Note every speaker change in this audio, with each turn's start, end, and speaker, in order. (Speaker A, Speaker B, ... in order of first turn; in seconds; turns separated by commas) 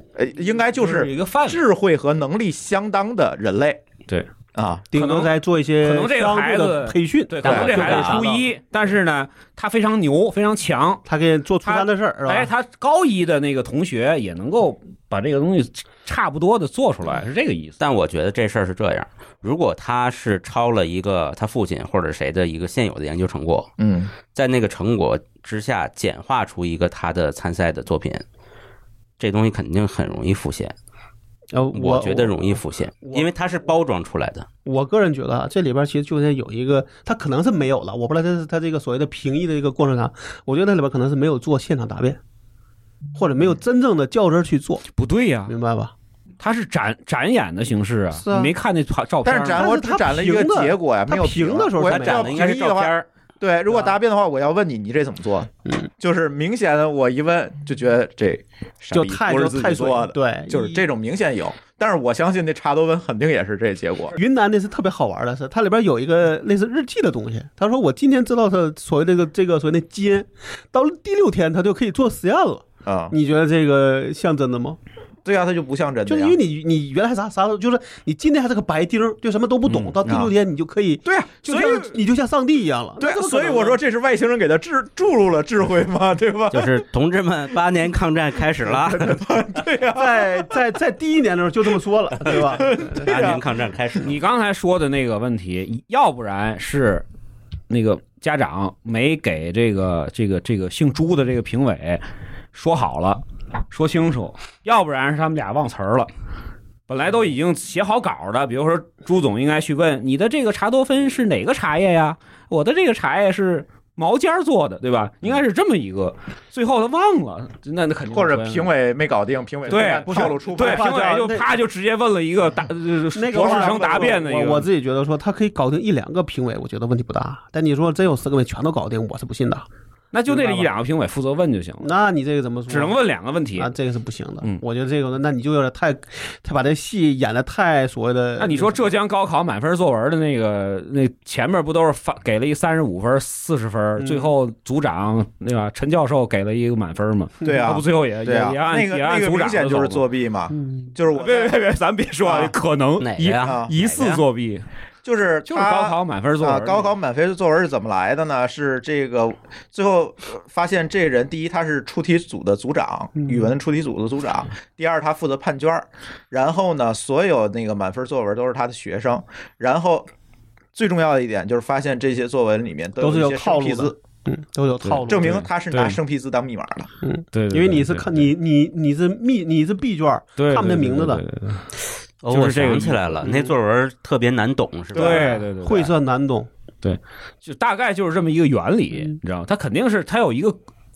Speaker A: 0.2-3.8, Speaker B: 0.7-1.6, Speaker A: 4.5-4.8, Speaker C: 4.9-8.4, Speaker B: 4.9-11.0, Speaker A: 7.4-8.2, Speaker D: 7.8-8.1, Speaker C: 11.1-12.5, Speaker B: 11.6-17.8, Speaker D: 17.8-23.7, Speaker A: 23.8-24.1, Speaker D: 24.3-28.2, Speaker D: 29.2-30.8, Speaker C: 31.5-33.3, Speaker D: 31.7-34.5, Speaker C: 34.6-42.2, Speaker C: 43.1-44.9, Speaker B: 45.0-45.5, Speaker C: 45.5-45.9, Speaker B: 46.4-49.7, Speaker C: 48.1-48.5, Speaker A: 49.2-64.2, Speaker C: 49.5-52.5, Speaker D: 51.8-53.1, Speaker C: 53.7-54.0, Speaker C: 58.9-60.8, Speaker C: 64.2-74.8, Speaker A: 72.9-73.2, Speaker A: 75.2-76.4, Speaker C: 76.1-83.8, Speaker A: 80.0-80.3, Speaker A: 81.0-82.0, Speaker A: 83.0-86.8, Speaker D: 86.5-89.2, Speaker A: 88.9-90.6, Speaker C: 89.9-93.1, Speaker A: 92.2-93.4, Speaker D: 92.5-94.2, Speaker B: 94.0-97.0, Speaker B: 97.7-106.1, Speaker B: 106.9-118.7, Speaker A: 118.1-121.0, Speaker C: 119.7-121.5, Speaker B: 119.7-124.7, Speaker C: 123.2-129.7, Speaker A: 123.3-124.2, Speaker B: 130.1-131.9, Speaker C: 130.3-130.7, Speaker C: 131.8-133.0, Speaker B: 132.7-133.7, Speaker C: 133.6-138.9, Speaker B: 138.4-150.0, Speaker C: 144.0-144.3, Speaker A: 147.4-151.6, Speaker C: 150.5-150.9, Speaker B: 151.1-154.7, Speaker A: 152.2-152.5, Speaker D: 153.0-154.2, Speaker A: 153.4-153.7, Speaker A: 155.0-170.1, Speaker B: 155.5-156.9, Speaker C: 163.2-163.5, Speaker A: 170.8-174.0, Speaker C: 173.0-175.5, Speaker B: 174.8-176.0, Speaker A: 175.1-176.9, Speaker C: 177.0-181.2, Speaker B: 177.3-178.3, Speaker B: 180.4-181.7, Speaker D: 182.2-185.3, Speaker B: 182.3-183.2, Speaker C: 183.2-183.5, Speaker B: 184.9-185.9, Speaker C: 184.9-186.5, Speaker B: 186.8-190.6